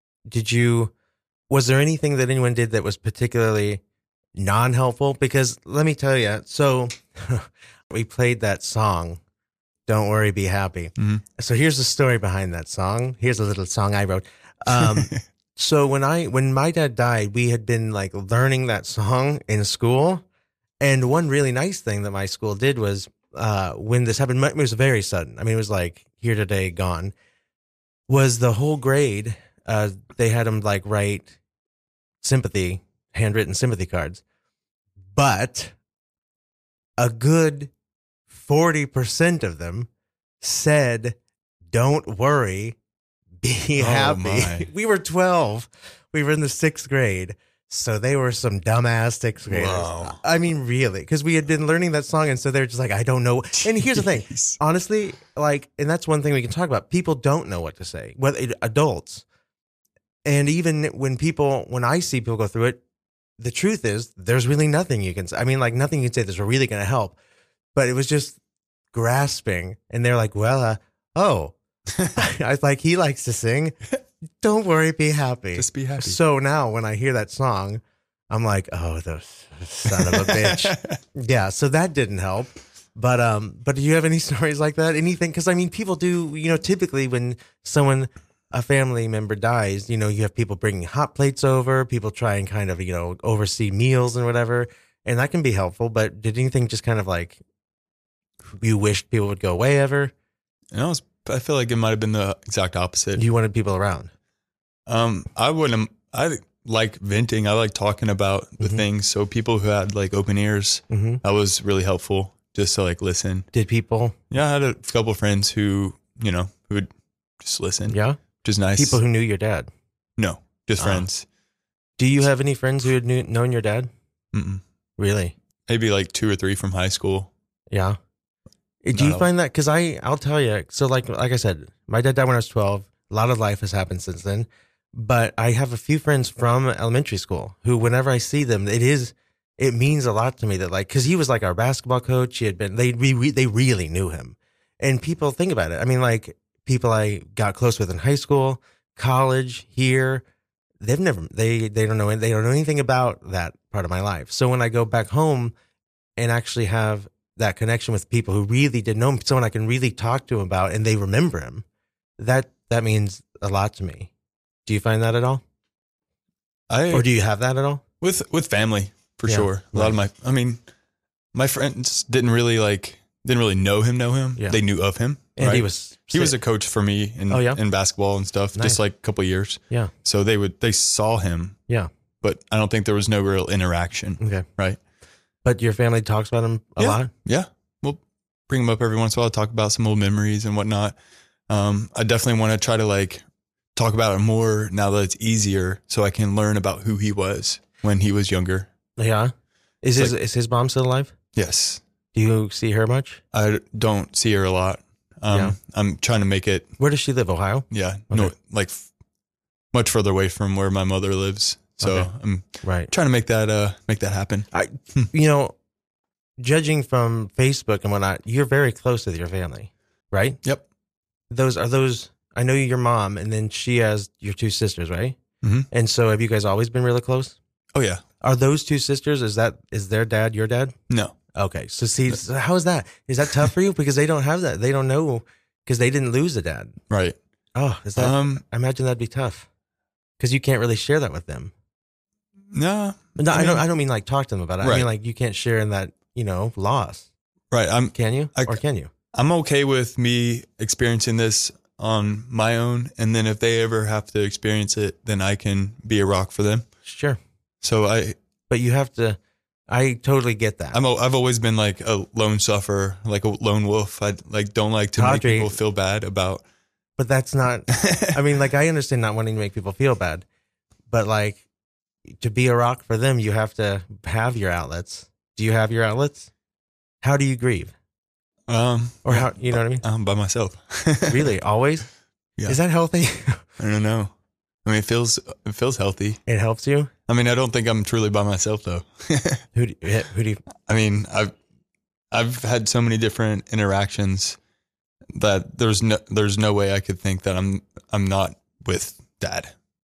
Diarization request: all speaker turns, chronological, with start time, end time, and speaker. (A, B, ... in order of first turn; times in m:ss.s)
0:00.3-0:00.9 A
0:01.5-0:03.8 A
0:04.4-0:09.2 A
0:09.9-0:20.2 A
0:11.0-0:11.2 B
0:14.8-0:15.2 B
0:20.8-0:27.1 A
0:28.1-0:31.4 A
0:32.2-0:34.2 A
0:35.2-0:35.7 A
0:37.0-0:37.7 A
0:38.3-0:39.9 A
0:40.4-0:41.2 A
0:41.7-0:42.8 A
0:43.4-0:59.2 A
0:43.8-0:44.7 B
0:49.5-0:50.2 B
0:53.6-0:54.6 B
1:00.2-1:02.8 A
1:03.4-1:07.2 A
1:07.8-1:08.4 A
1:08.9-1:11.5 A
1:12.1-1:13.8 A
1:14.4-1:37.4 A
1:15.6-1:16.2 B
1:19.9-1:21.0 B
1:38.5-1:40.1 A
1:40.7-1:43.2 B
1:43.2-1:44.1 A
1:44.9-1:53.5 B
1:50.9-1:51.2 A
1:53.5-1:54.2 A
1:54.3-1:59.0 B
1:57.9-1:58.2 A
1:58.8-1:59.7 A
2:00.2-2:01.3 B
2:00.8-2:01.1 A
2:02.0-2:03.9 A
2:04.3-2:04.6 B
2:05.0-2:05.3 A
2:05.7-2:07.3 B
2:07.7-2:08.0 A
2:08.8-2:30.2 A
2:08.9-2:09.3 B
2:30.8-2:35.5 A
2:36.2-2:41.6 A
2:42.2-2:44.1 A
2:44.7-2:45.4 A
2:46.7-2:47.1 B
2:46.9-2:47.8 A
2:48.0-2:50.6 B
2:49.3-2:50.0 A
2:51.3-3:01.6 B
2:55.4-2:56.4 A
2:57.3-2:57.6 A
2:58.6-2:58.8 A
3:02.2-3:04.8 B
3:04.2-3:04.5 A
3:05.4-3:07.1 A
3:06.8-3:11.0 B
3:11.5-3:13.2 B
3:13.8-3:18.7 B
3:19.0-3:21.1 A
3:21.4-3:21.8 B
3:22.1-3:23.2 A
3:23.3-3:26.7 B
3:26.8-3:28.3 A
3:27.7-3:28.9 B
3:29.7-3:35.1 B
3:31.8-3:32.1 A
3:32.6-3:32.9 A
3:34.5-3:35.6 A
3:36.4-3:40.4 A
3:41.3-3:45.2 A
3:45.4-3:45.7 B
3:45.7-3:47.4 A
3:47.7-3:48.0 B
3:48.2-3:50.8 A
3:50.9-3:51.2 B
3:51.4-3:56.8 A
3:56.9-3:57.2 B
3:57.6-3:59.5 A
3:58.0-3:58.4 B
4:00.2-4:01.5 A
4:02.5-4:03.6 B
4:03.2-4:07.1 A
4:04.6-4:04.9 B
4:07.5-4:08.6 B
4:07.9-4:08.9 A
4:09.1-4:16.7 B
4:16.8-4:17.2 A
4:17.6-4:18.2 B
4:18.5-4:19.2 A
4:19.7-4:20.8 A
4:20.7-4:26.4 B
4:25.0-4:25.6 A
4:27.0-4:30.2 A
4:27.8-4:28.1 B
4:30.9-4:31.4 A
4:32.1-4:36.3 A
4:37.0-4:37.7 A
4:38.5-4:41.3 B
4:39.0-4:39.8 A
4:41.1-4:41.9 A
4:42.5-4:43.4 A
4:43.6-4:44.1 B
4:44.6-4:46.2 B
4:46.3-4:46.9 A
4:47.1-4:49.4 B
4:49.5-4:50.4 A
4:50.7-4:51.3 B
4:52.1-4:54.4 B
4:55.1-4:59.5 B